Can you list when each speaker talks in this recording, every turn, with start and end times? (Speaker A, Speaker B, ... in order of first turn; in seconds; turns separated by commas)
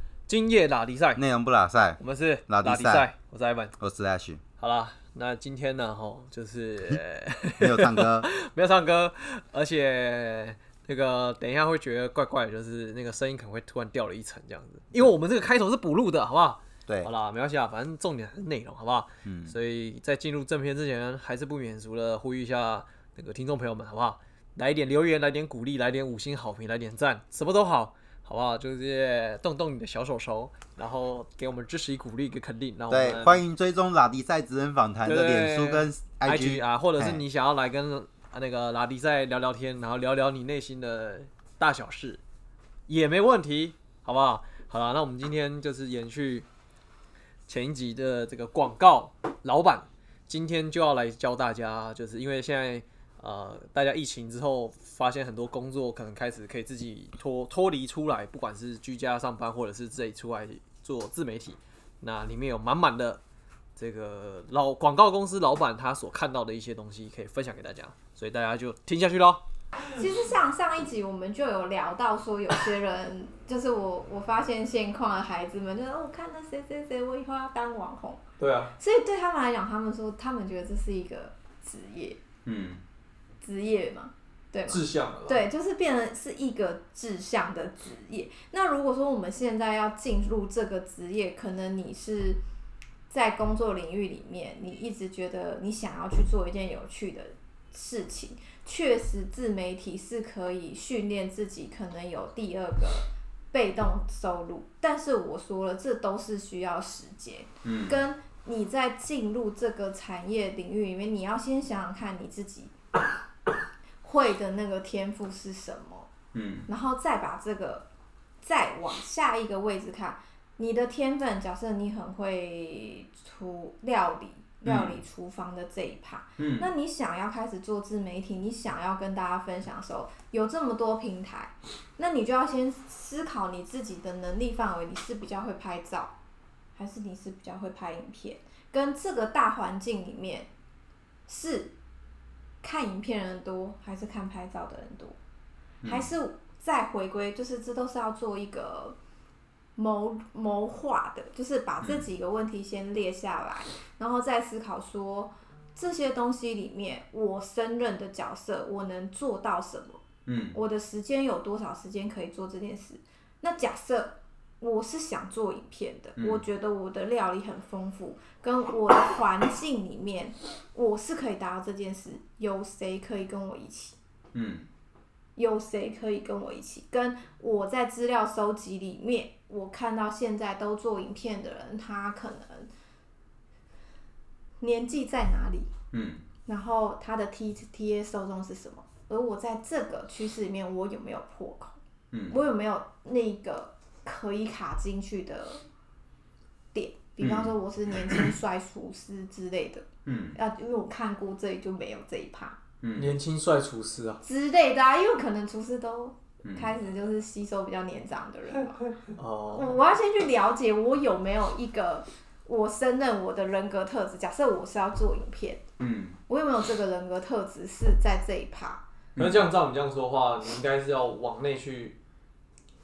Speaker A: 0.3-1.2, Speaker B: 1.1-3.0, Speaker A: 2.0-3.8, Speaker B: 3.8-4.4, Speaker A: 4.6-33.4, Speaker B: 7.6-8.3, Speaker B: 19.2-19.5, Speaker B: 32.9-37.2, Speaker A: 35.0-42.2, Speaker A: 42.9-46.5, Speaker A: 47.5-63.2, Speaker A: 63.8-69.4, Speaker C: 69.9-78.2, Speaker A: 78.4-78.7, Speaker C: 78.8-82.2, Speaker B: 82.4-82.8, Speaker C: 83.4-92.4, Speaker A: 84.7-85.5, Speaker C: 93.1-112.7, Speaker B: 107.6-108.0, Speaker C: 114.0-116.1, Speaker B: 116.3-116.7, Speaker C: 116.7-117.8, Speaker C: 118.4-136.1, Speaker B: 124.6-125.0, Speaker B: 126.4-126.7, Speaker C: 136.8-140.5, Speaker C: 141.3-141.7, Speaker C: 142.6-145.2, Speaker B: 145.8-146.1, Speaker C: 145.8-149.0, Speaker C: 149.8-160.0, Speaker B: 160.2-160.6, Speaker C: 160.5-173.9, Speaker B: 166.2-166.4, Speaker B: 174.3-174.6, Speaker C: 175.3-182.7, Speaker C: 184.6-185.7, Speaker B: 185.9-186.2, Speaker C: 186.4-191.8, Speaker B: 192.1-192.4, Speaker C: 192.3-195.6, Speaker C: 196.7-202.6, Speaker B: 197.2-197.5, Speaker B: 200.0-200.4, Speaker B: 202.8-203.2, Speaker A: 203.0-204.2, Speaker C: 204.2-208.8, Speaker B: 206.4-206.7, Speaker A: 209.1-209.7, Speaker C: 209.5-215.6, Speaker B: 215.8-216.2, Speaker C: 216.3-218.8, Speaker B: 219.2-219.5, Speaker A: 219.2-221.9